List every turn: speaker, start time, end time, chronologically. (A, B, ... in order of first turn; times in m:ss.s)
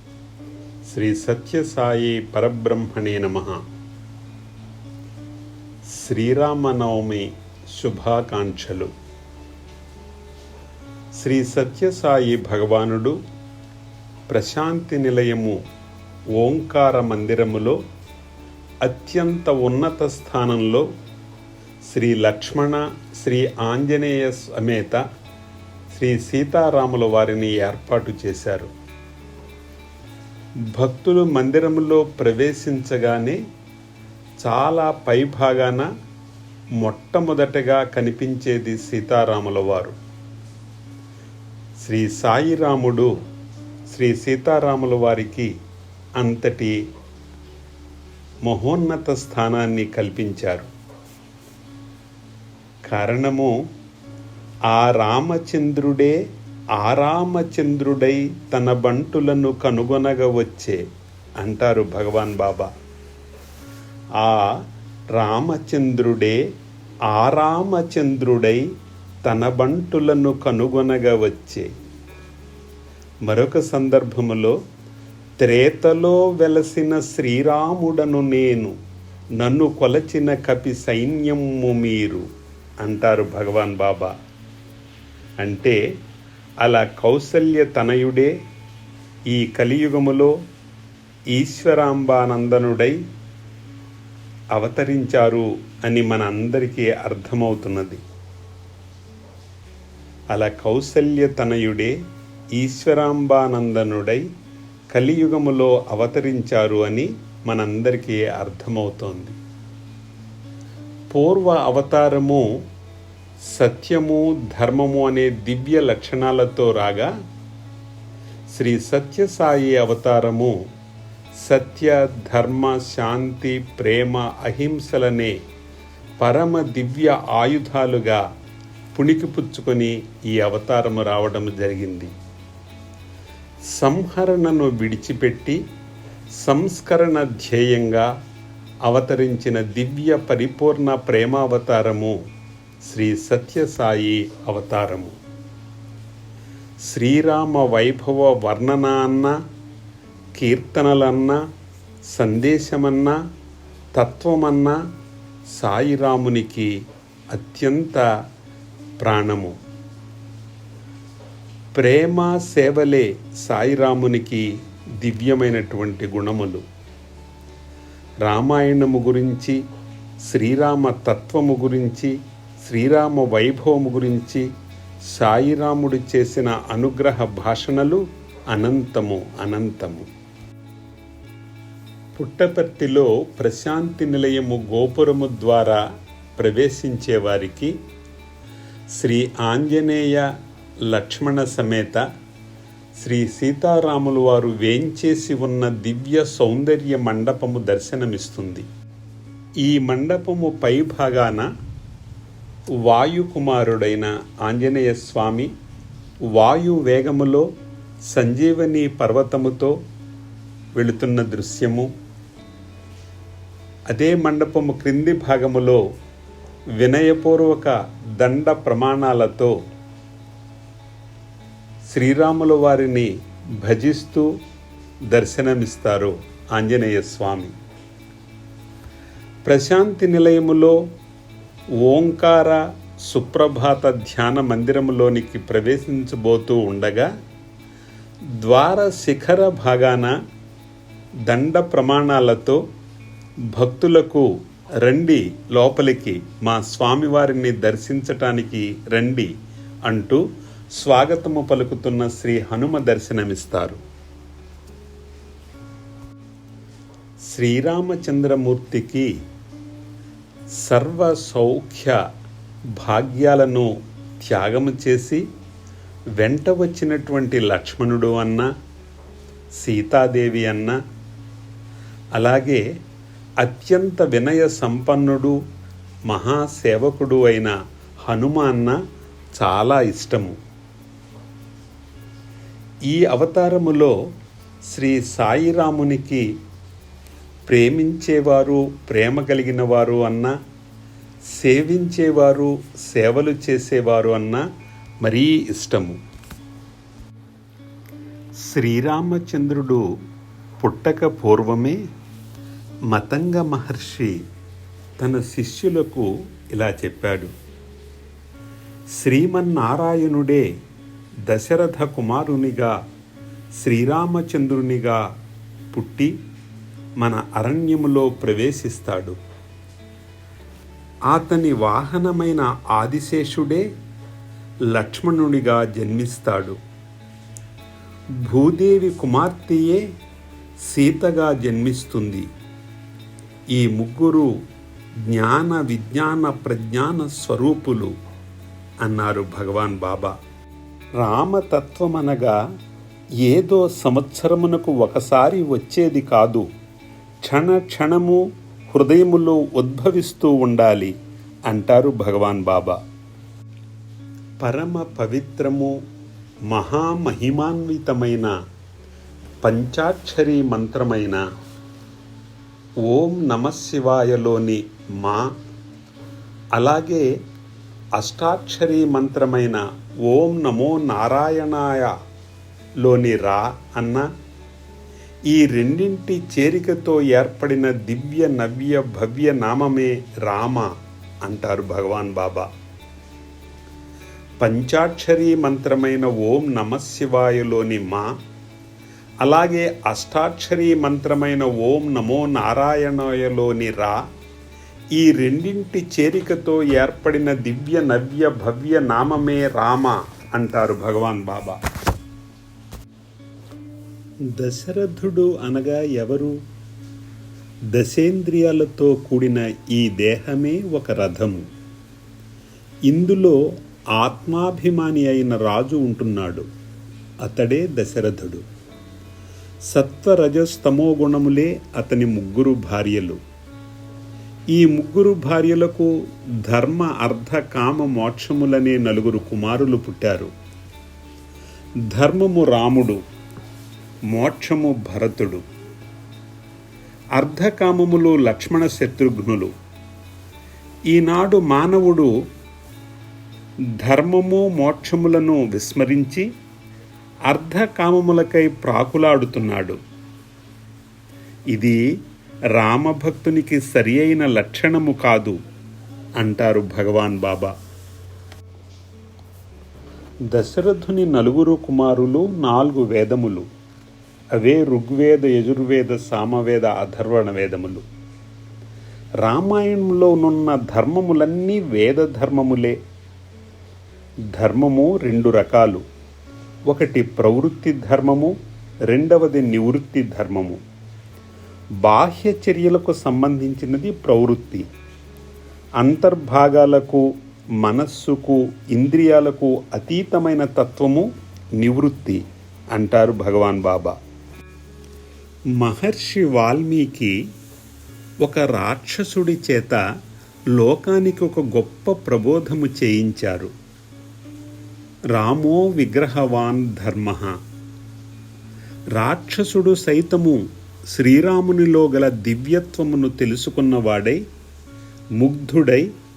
0:00.9-0:03.6 A
0:05.9-0:08.9 A
0:11.2-0:13.2 A
0:14.3-0:15.6 A
0:16.4-0:17.8 A
0:18.8-0:20.8 A
0:21.9-0:25.0 A
0:25.9-0:28.7 A
0:30.7-0:33.4 A
0:34.4-0:35.9 A
0:36.8-0:40.0 A
0:41.8-0:43.1 A
0:43.9-0:45.5 A
0:46.2-0:46.8 A
0:48.5-0:50.7 A
0:52.9-0:53.5 A
0:54.7-0:56.2 A
0:56.8-1:00.8 A
1:01.4-1:02.7 A
1:04.2-1:04.6 A
1:05.1-1:06.4 A
1:07.1-1:08.6 A
1:09.2-1:11.7 A
1:13.3-1:14.6 A
1:15.4-1:18.8 A
1:19.4-1:22.2 A
1:22.8-1:24.1 A
1:25.4-1:25.8 A
1:26.6-1:28.3 A
1:29.3-1:30.3 A
1:31.3-1:33.0 A
1:34.5-1:38.0 A
1:40.3-1:41.9 A
1:42.6-1:44.2 A
1:44.9-1:49.4 A
1:51.1-1:52.4 A
1:53.5-1:57.1 A
1:58.5-2:00.5 A
2:01.4-2:05.3 A
2:06.2-2:08.2 A
2:08.9-2:12.1 A
2:13.7-2:15.6 A
2:16.4-2:18.1 A
2:18.9-2:22.2 A
2:22.8-2:25.2 A
2:26.9-2:29.4 A
2:30.4-2:31.4 A
2:32.1-2:33.2 A
2:33.9-2:34.8 A
2:35.5-2:36.7 A
2:37.3-2:38.0 A
2:39.0-2:39.6 A
2:41.8-2:44.4 A
2:45.0-2:46.6 A
2:48.2-2:49.6 A
2:50.3-2:54.5 A
2:55.1-3:00.1 A
3:02.2-3:05.8 A
3:06.4-3:07.7 A
3:09.0-3:10.3 A
3:10.9-3:12.0 A
3:13.0-3:18.7 A
3:19.6-3:21.5 A
3:22.8-3:25.5 A
3:26.3-3:27.5 A
3:28.1-3:29.7 A
3:30.8-3:31.9 A
3:33.9-3:35.8 A
3:36.8-3:39.5 A
3:41.9-3:43.1 A
3:43.6-3:44.3 A
3:45.1-3:47.5 A
3:49.5-3:50.8 A
3:51.8-3:57.1 A
3:58.4-4:00.1 A
4:01.3-4:02.6 A
4:03.5-4:04.3 A
4:04.8-4:09.3 A
4:09.9-4:10.2 A
4:10.8-4:13.8 A
4:17.3-4:19.1 A
4:20.6-4:22.0 A
4:22.8-4:23.7 A
4:24.2-4:25.2 A
4:26.2-4:28.5 A
4:29.6-4:30.8 A
4:32.2-4:32.6 A
4:33.4-4:35.4 A
4:36.1-4:37.5 A
4:38.1-4:38.8 A
4:39.4-4:40.4 A
4:42.9-4:43.9 A
4:44.7-4:46.2 A
4:47.5-4:50.3 A
4:51.3-4:54.4 A
4:55.0-4:56.0 A
4:58.4-4:59.8 A
5:00.6-5:01.8 A
5:02.9-5:04.2 A
5:05.0-5:07.3 A
5:09.0-5:10.4 A
5:11.3-5:12.7 A
5:13.6-5:15.0 A
5:15.7-5:16.1 A
5:17.0-5:19.2 A
5:21.1-5:23.6 A
5:24.7-5:26.6 A
5:28.2-5:29.8 A
5:30.7-5:32.3 A
5:33.5-5:34.3 A
5:35.1-5:37.9 A
5:38.8-5:40.1 A
5:41.0-5:42.4 A
5:43.2-5:46.5 A
5:47.2-5:50.9 A
5:51.5-5:52.8 A
5:54.4-5:55.7 A
5:56.5-5:58.3 A
5:59.4-6:01.2 A
6:02.9-6:05.3 A
6:06.6-6:07.1 A
6:08.0-6:11.9 A
6:12.8-6:14.1 A
6:15.3-6:20.7 A
6:21.2-6:22.5 A
6:24.4-6:28.1 A
6:29.2-6:34.0 A
6:35.0-6:41.6 A
6:44.4-6:46.3 A
6:47.7-6:51.4 A
6:52.9-6:53.4 A
6:54.0-6:56.5 A
6:57.2-6:58.4 A
6:59.7-7:03.2 A
7:04.5-7:10.3 A
7:11.9-7:13.0 A
7:14.1-7:15.4 A
7:17.2-7:19.5 A
7:20.9-7:22.1 A
7:23.8-7:26.3 A
7:27.3-7:29.8 A
7:31.5-7:31.8 A
7:32.6-7:35.4 A
7:36.2-7:37.5 A
7:40.3-7:43.5 A
7:44.4-7:47.8 A
7:49.2-7:52.8 A
7:54.3-7:55.8 A
7:56.7-7:58.3 A
7:58.9-8:00.6 A
8:01.8-8:04.6 A
8:05.8-8:07.0 A
8:07.6-8:11.1 A
8:11.6-8:12.2 A
8:12.7-8:14.0 A
8:15.6-8:17.2 A
8:18.2-8:19.8 A
8:20.5-8:23.5 A
8:25.1-8:27.4 A
8:29.0-8:34.2 A
8:35.2-8:35.9 A